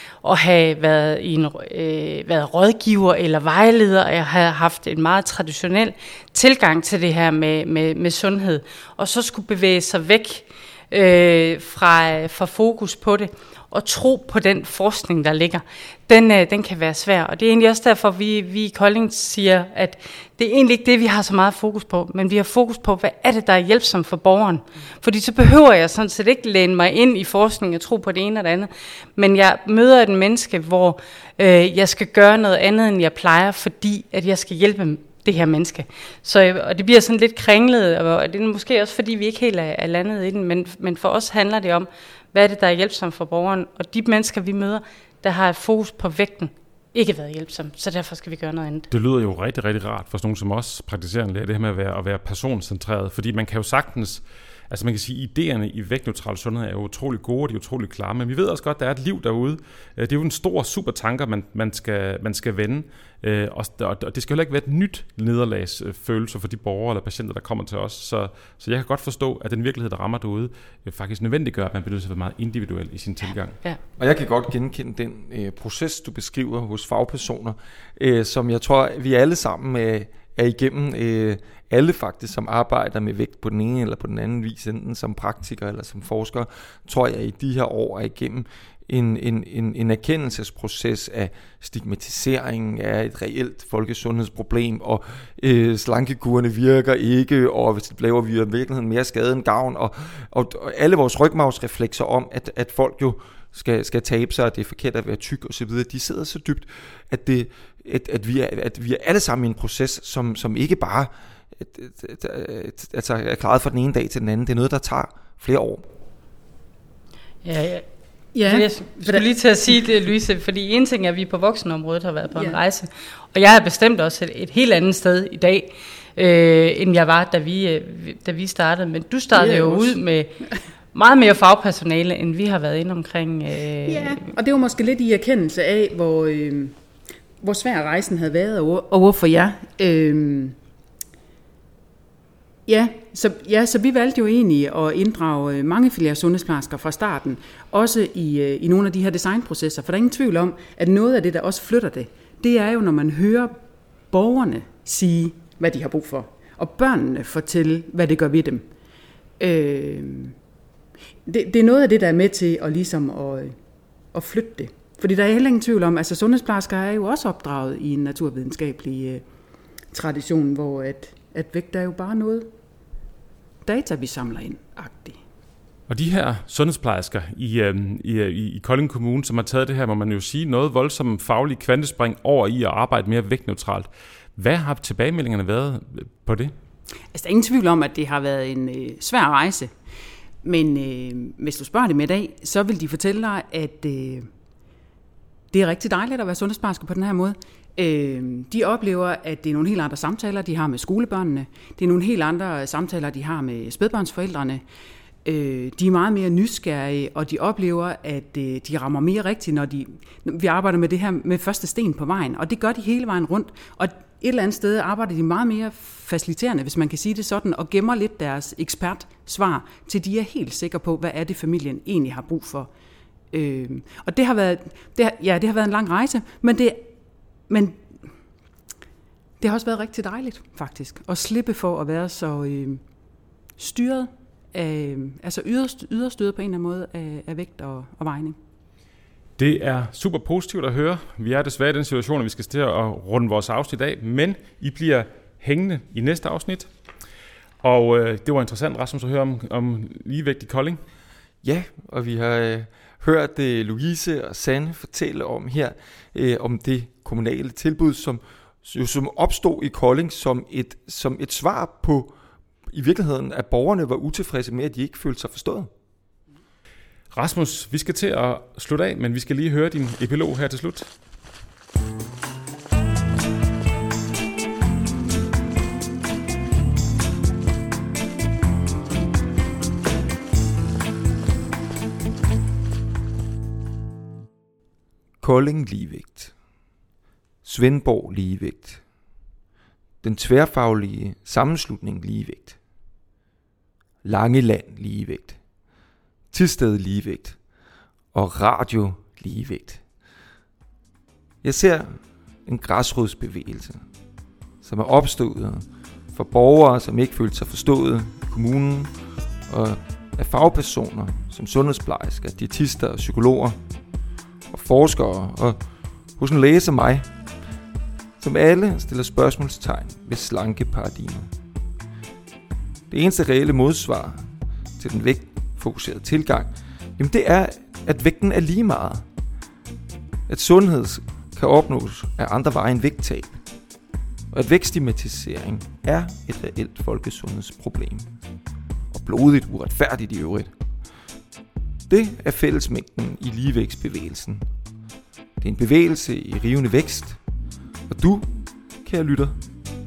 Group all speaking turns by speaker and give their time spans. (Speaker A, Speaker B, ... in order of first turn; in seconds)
Speaker A: 0.2-48.9, 117.4-117.8, 118.4-130.3, 130.9-134.3
Speaker B: 48.9-73.6, 175.9-186.5, 239.4-246.7, 247.6-250.8, 267.1-270.9
Speaker C: 74.0-115.8, 251.4-262.1, 262.7-265.7, 285.2-286.3, 287.4-288.8, 290.0-292.6, 294.0-295.4, 296.3-297.4, 298.1-299.8, 301.4-303.8, 304.6-308.9, 309.5-313.6, 314.5-315.6, 316.2-317.1, 318.2-321.3, 322.9-324.3, 324.8-329.1, 330.3-333.4, 334.3-338.1, 338.9-340.5, 341.9-344.5, 345.4-347.2, 347.9-348.3, 348.8-349.4
Speaker D: 118.3-119.3, 129.3-130.0, 133.9-136.7, 137.4-140.6, 142.7-153.6, 154.1-158.6, 159.4-160.3, 161.2-163.5, 164.1-169.2, 169.9-172.5, 173.6-175.2, 187.1-189.7, 190.4-194.3, 195.5-204.6, 205.2-222.7, 223.3-226.9, 227.5-228.0, 229.4-232.8, 233.6-238.3